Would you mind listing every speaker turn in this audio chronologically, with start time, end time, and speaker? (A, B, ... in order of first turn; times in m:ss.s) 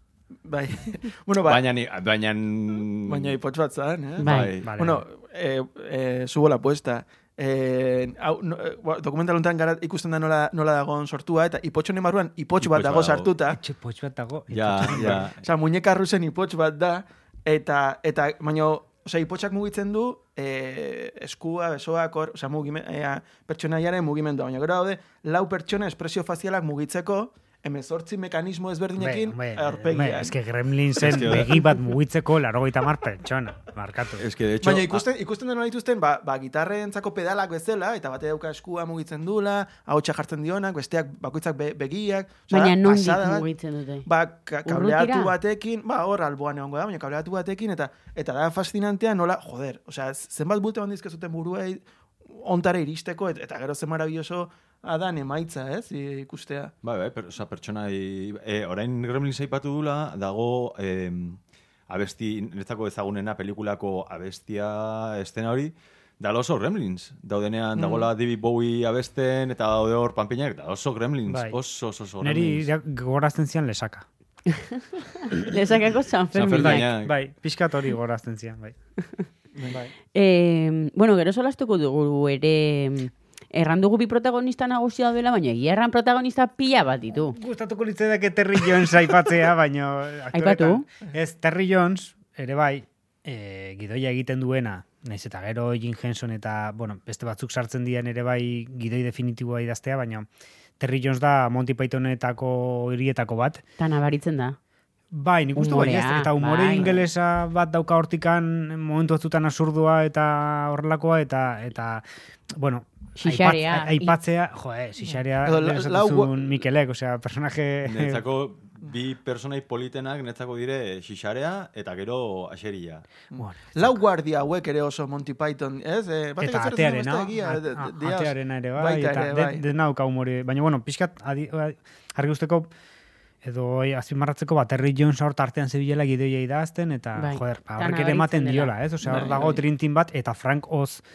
0:00.4-0:01.6 A
0:01.4-0:03.4 B
0:03.1-0:13.6 A
0:04.2-0:04.5 C
0:04.2-0:04.7 B
0:04.6-0:05.0 D
0:12.6-0:13.3 B
0:13.5-0:15.2 D
0:14.5-0:15.4 B
0:14.8-0:30.4 A
0:29.0-0:34.2 D
0:31.0-0:31.6 B
0:31.1-0:31.4 A
0:34.2-0:35.0 B
0:34.6-0:43.4 A
0:42.5-0:44.0 C
0:44.0-0:51.8 A
0:44.6-0:45.4 C
0:52.3-0:56.7 A
0:56.8-1:12.7 B
1:07.8-1:08.1 A
1:11.3-1:11.6 D
1:12.2-1:14.0 D
1:14.5-1:16.9 C
1:16.3-1:17.1 B
1:16.5-1:18.7 D
1:19.6-1:19.9 A
1:20.1-1:27.4 C
1:27.3-1:40.3 D
1:30.3-1:30.8 C
1:40.8-1:43.6 D
1:43.8-1:44.6 C
1:45.1-1:58.2 D
1:45.6-1:47.0 C
1:53.2-1:54.2 C
1:55.0-1:56.6 A
1:57.8-2:03.0 B
2:03.3-2:09.6 A
2:03.4-2:04.0 D
2:06.4-2:12.7 D
2:13.4-2:21.0 D
2:17.1-2:19.6 C
2:19.0-2:19.6 A